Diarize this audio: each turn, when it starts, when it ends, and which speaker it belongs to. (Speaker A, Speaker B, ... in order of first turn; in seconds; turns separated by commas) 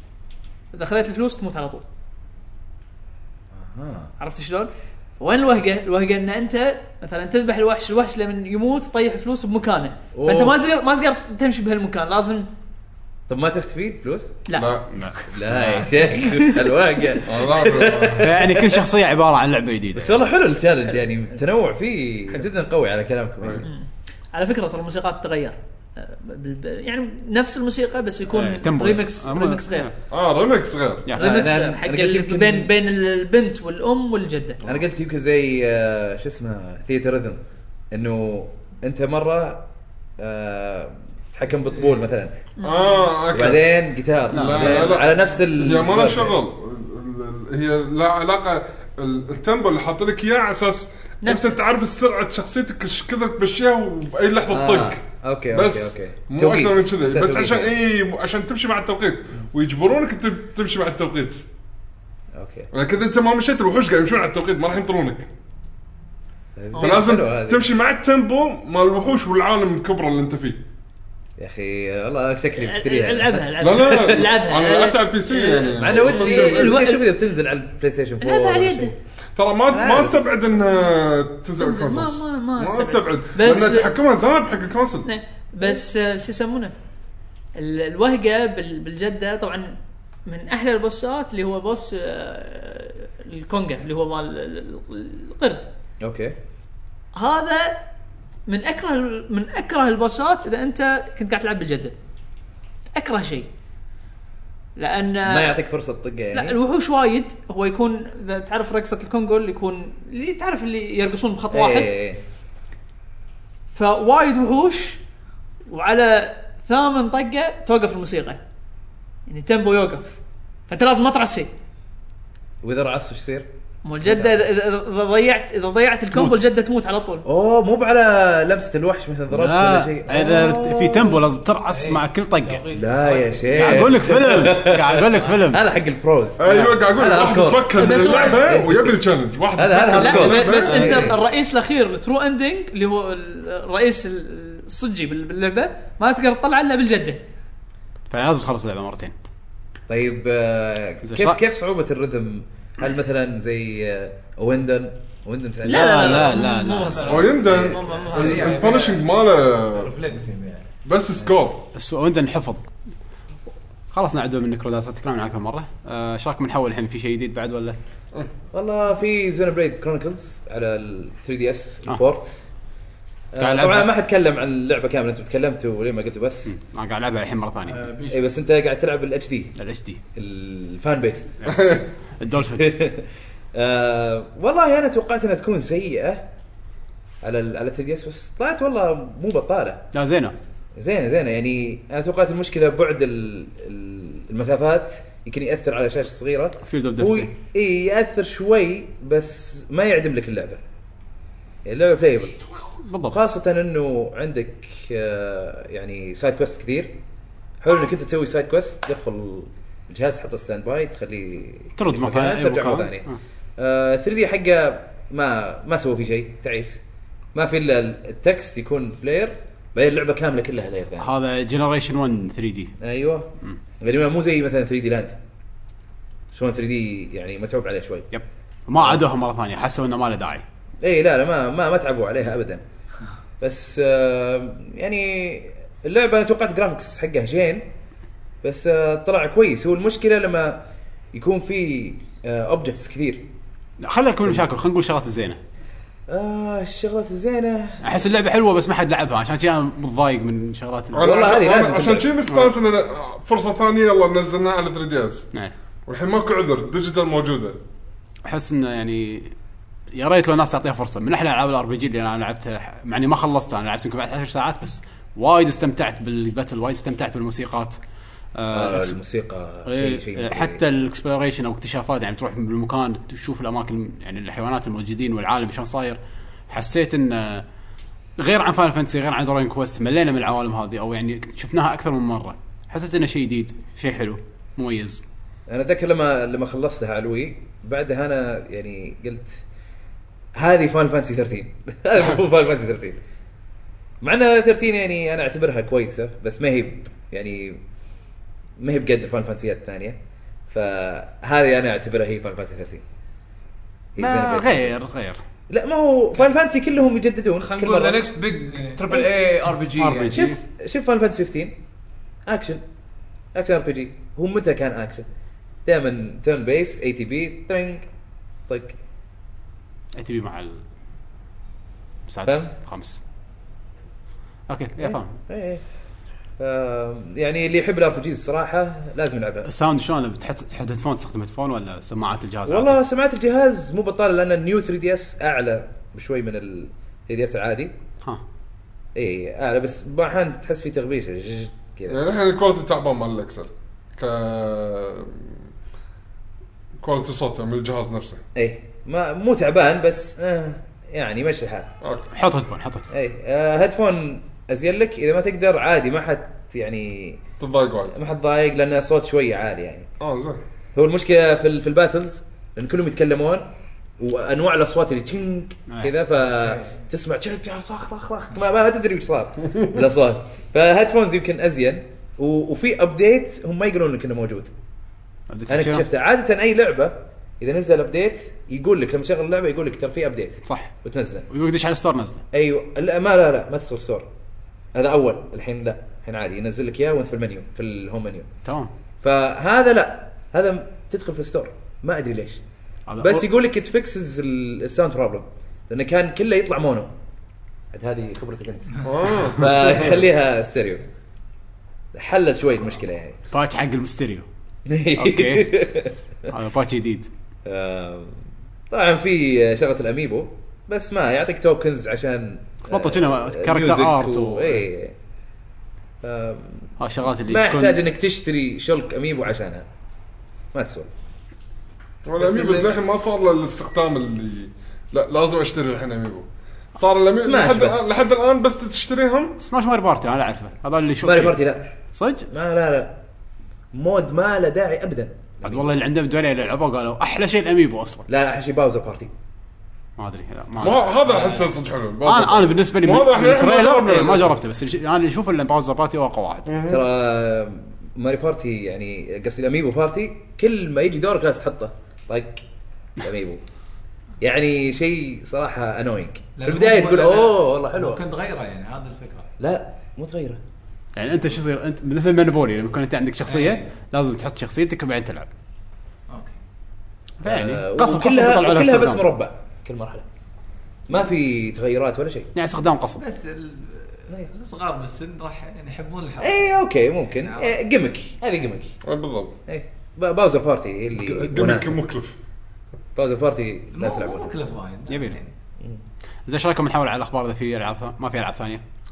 Speaker A: 0.7-1.8, Speaker B: 3.6-4.1, Speaker A: 4.2-12.5, Speaker B: 10.1-10.6, Speaker B: 13.3-14.4, Speaker C: 14.5-15.0, Speaker D: 14.9-16.0, Speaker B: 15.2-18.8, Speaker A: 16.1-16.6, Speaker C: 17.3-18.3, Speaker D: 18.2-20.3, Speaker B: 19.9-23.7, Speaker A: 23.6-29.9, Speaker D: 28.3-29.9, Speaker C: 30.1-31.1, Speaker D: 31.1-31.4, Speaker A: 31.1-34.6, Speaker B: 31.2-32.7, Speaker B: 34.6-37.4, Speaker B: 37.9-39.6, Speaker B: 40.2-42.3, Speaker A: 42.6-43.1, Speaker C: 42.6-43.6, Speaker B: 43.3-46.4, Speaker C: 44.3-61.5, Speaker D: 44.3-44.9, Speaker A: 51.2-51.6, Speaker B: 54.5-57.7, Speaker B: 62.3-62.7, Speaker C: 62.7-65.3, Speaker B: 66.5-67.7, Speaker A: 66.7-67.0, Speaker C: 66.8-70.6, Speaker B: 71.4-74.3, Speaker A: 72.6-77.0, Speaker C: 73.6-76.8, Speaker B: 75.6-78.9, Speaker A: 78.2-78.9, Speaker C: 79.3-85.1, Speaker A: 79.7-80.2, Speaker A: 81.6-83.9, Speaker A: 85.0-86.7, Speaker A: 87.5-95.7, Speaker B: 96.0-96.3, Speaker A: 97.1-97.8, Speaker A: 98.5-101.9, Speaker A: 102.9-103.5, Speaker A: 104.8-105.6, Speaker B: 105.2-106.6, Speaker A: 106.3-112.0, Speaker B: 111.5-112.2, Speaker A: 113.7-115.0, Speaker A: 115.7-118.4, Speaker A: 119.3-121.5, Speaker B: 122.6-123.5, Speaker A: 123.8-127.2, Speaker B: 124.0-124.5, Speaker D: 126.1-126.5, Speaker B: 127.2-131.2, Speaker D: 129.3-132.7, Speaker E: 131.7-134.2, Speaker B: 132.7-138.9, Speaker D: 133.5-135.6, Speaker C: 136.4-141.0, Speaker A: 137.7-138.6, Speaker B: 139.6-141.1, Speaker A: 139.9-147.2, Speaker D: 140.7-141.0, Speaker D: 148.1-149.1, Speaker B: 149.9-156.4, Speaker D: 151.0-151.4, Speaker D: 155.6-157.3, Speaker A: 155.6-158.6, Speaker E: 156.8-159.1, Speaker C: 157.1-159.9, Speaker E: 159.7-161.3, Speaker C: 160.8-161.7, Speaker D: 161.7-162.7, Speaker D: 163.9-167.8, Speaker B: 168.5-172.3, Speaker B: 173.3-176.5, Speaker D: 173.4-173.9, Speaker D: 176.4-177.8, Speaker E: 177.7-178.2, Speaker B: 178.1-179.6, Speaker D: 179.6-180.0, Speaker B: 180.1-181.8, Speaker D: 181.4-182.8, Speaker B: 182.5-186.2, Speaker B: 187.2-189.8, Speaker D: 189.9-190.3, Speaker B: 190.8-200.6, Speaker D: 196.6-197.3, Speaker B: 201.7-202.4, Speaker D: 202.8-203.2, Speaker B: 203.1-206.9, Speaker B: 207.6-216.8, Speaker D: 211.8-213.2, Speaker B: 217.3-221.1, Speaker D: 221.0-222.8, Speaker B: 222.8-223.3, Speaker B: 223.8-225.2, Speaker B: 226.3-228.1, Speaker D: 228.1-230.4, Speaker B: 230.8-232.6, Speaker B: 233.4-237.6, Speaker B: 238.4-240.6, Speaker B: 241.1-243.2, Speaker D: 243.8-245.4, Speaker B: 246.1-247.9, Speaker D: 247.8-251.3, Speaker C: 250.9-255.3, Speaker B: 251.0-252.1, Speaker D: 252.3-252.5, Speaker C: 255.9-257.6, Speaker D: 258.2-259.3, Speaker D: 259.9-267.8, Speaker D: 268.3-269.0, Speaker B: 268.5-270.6, Speaker D: 269.6-277.4, Speaker D: 278.2-285.0, Speaker B: 285.5-289.4, Speaker B: 290.4-293.0, Speaker B: 294.0-297.6, Speaker B: 298.6-302.8, Speaker B: 303.9-304.8, Speaker D: 304.0-305.2, Speaker B: 305.5-308.0, Speaker F: 307.4-310.3, Speaker E: 308.5-308.8, Speaker D: 309.8-310.4, Speaker B: 310.1-311.6, Speaker B: 312.2-312.6, Speaker B: 313.3-315.1, Speaker B: 315.6-317.9, Speaker B: 318.5-318.8, Speaker D: 319.9-320.6, Speaker D: 322.1-323.0, Speaker B: 322.2-322.5, Speaker D: 324.5-325.1, Speaker B: 324.8-325.6, Speaker B: 326.4-329.5, Speaker D: 329.4-332.8, Speaker B: 332.5-337.7, Speaker B: 338.9-342.0, Speaker C: 341.9-345.4, Speaker C: 346.8-348.2, Speaker B: 348.3-351.7, Speaker C: 351.8-352.1, Speaker D: 352.1-352.9, Speaker B: 352.9-357.2, Speaker C: 357.4-357.9, Speaker B: 357.9-359.9, Speaker C: 360.0-360.4, Speaker B: 360.7-363.5, Speaker B: 364.0-374.5, Speaker D: 375.3-375.9, Speaker B: 375.5-381.3, Speaker D: 380.4-380.7, Speaker D: 381.3-382.2, Speaker B: 382.3-384.1, Speaker B: 384.7-388.3, Speaker D: 388.4-388.7, Speaker B: 389.0-392.4, Speaker D: 392.9-393.3, Speaker B: 393.0-396.9, Speaker B: 397.7-400.8, Speaker C: 398.8-399.7, Speaker B: 401.9-403.2, Speaker D: 403.3-404.2, Speaker B: 404.7-405.9, Speaker D: 404.9-405.6, Speaker D: 406.3-407.1, Speaker B: 407.4-414.9, Speaker D: 412.7-414.6, Speaker B: 416.0-416.7, Speaker D: 416.8-417.8, Speaker B: 417.3-419.7, Speaker B: 420.5-420.9, Speaker C: 422.0-429.3, Speaker B: 422.2-422.8, Speaker B: 427.1-428.0, Speaker D: 429.4-431.4, Speaker B: 431.0-431.7, Speaker D: 431.9-432.3, Speaker B: 432.3-433.0, Speaker B: 433.7-435.7, Speaker D: 435.4-438.1, Speaker B: 438.1-439.1, Speaker D: 440.0-441.2, Speaker C: 440.6-444.3, Speaker E: 441.1-441.4, Speaker D: 442.0-446.5, Speaker C: 446.5-446.8, Speaker B: 446.6-452.4, Speaker B: 453.0-453.4, Speaker B: 454.2-458.0, Speaker E: 456.4-459.3, Speaker B: 459.4-460.4, Speaker D: 460.9-465.3, Speaker E: 463.3-463.7, Speaker E: 466.1-466.4, Speaker D: 467.2-469.1, Speaker B: 467.2-470.1, Speaker B: 470.9-472.3, Speaker D: 472.3-473.0, Speaker E: 473.0-477.6, Speaker B: 476.2-478.8, Speaker C: 478.8-479.3, Speaker B: 479.5-481.8, Speaker C: 481.0-482.1, Speaker B: 482.9-484.3, Speaker E: 483.7-485.3, Speaker D: 484.9-485.2, Speaker D: 486.2-488.6